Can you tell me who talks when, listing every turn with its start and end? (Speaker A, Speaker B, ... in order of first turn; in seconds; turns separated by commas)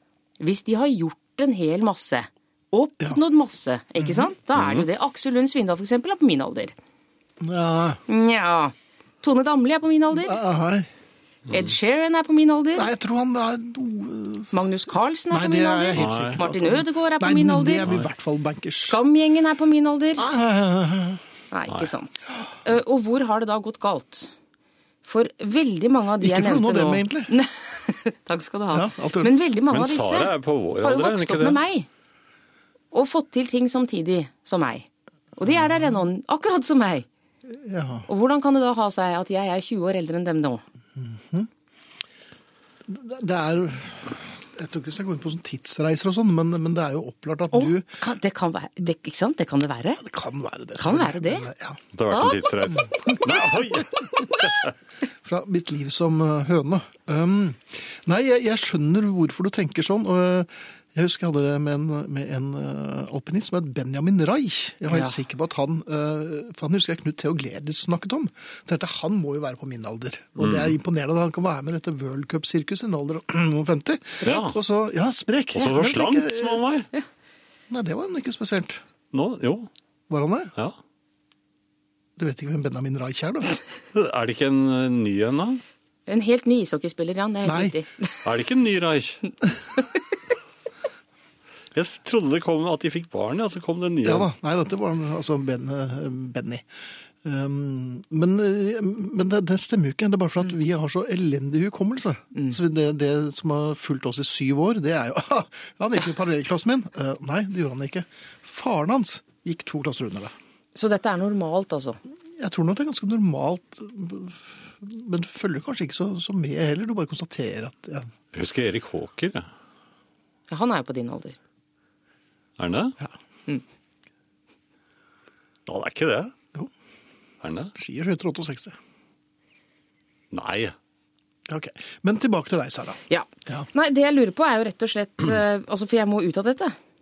Speaker A: 0.4-6.7, Speaker B: 4.0-4.3, Speaker C: 4.6-4.9, Speaker B: 7.4-8.0, Speaker A: 8.1-10.4, Speaker B: 10.2-10.9, Speaker C: 11.5-11.7, Speaker A: 11.5-12.9, Speaker B: 12.8-14.6, Speaker A: 14.5-17.9, Speaker B: 15.3-19.0, Speaker C: 15.9-16.4, Speaker A: 18.8-20.3, Speaker B: 20.2-21.2, Speaker A: 21.5-24.3, Speaker A: 25.1-31.9, Speaker B: 26.2-27.3, Speaker B: 28.7-29.3, Speaker C: 29.7-31.6, Speaker A: 32.9-37.1, Speaker B: 37.5-38.1, Speaker A: 38.1-40.6, Speaker B: 41.0-41.5, Speaker B: 42.9-47.9, Speaker A: 47.5-50.0, Speaker B: 50.0-51.8, Speaker A: 50.8-51.5, Speaker C: 51.9-54.7, Speaker A: 52.1-53.2, Speaker B: 53.0-53.5, Speaker B: 55.2-76.7, Speaker A: 64.9-65.2, Speaker C: 70.4-70.8, Speaker A: 74.2-74.5, Speaker C: 74.2-74.6, Speaker C: 75.5-76.9, Speaker B: 77.7-78.8, Speaker C: 79.1-79.7, Speaker B: 80.1-80.5, Speaker B: 82.2-83.6, Speaker C: 83.9-85.6, Speaker A: 86.1-88.3, Speaker B: 87.5-87.7, Speaker C: 88.2-89.2, Speaker C: 91.7-94.3, Speaker B: 94.0-96.6, Speaker B: 97.2-110.3, Speaker A: 110.8-112.0, Speaker B: 112.4-118.1, Speaker C: 118.3-119.5, Speaker A: 120.5-121.4, Speaker C: 122.6-123.0, Speaker C: 125.7-126.3, Speaker C: 127.4-127.7, Speaker B: 127.8-128.8, Speaker C: 130.3-130.8, Speaker B: 131.5-133.7, Speaker A: 133.1-136.8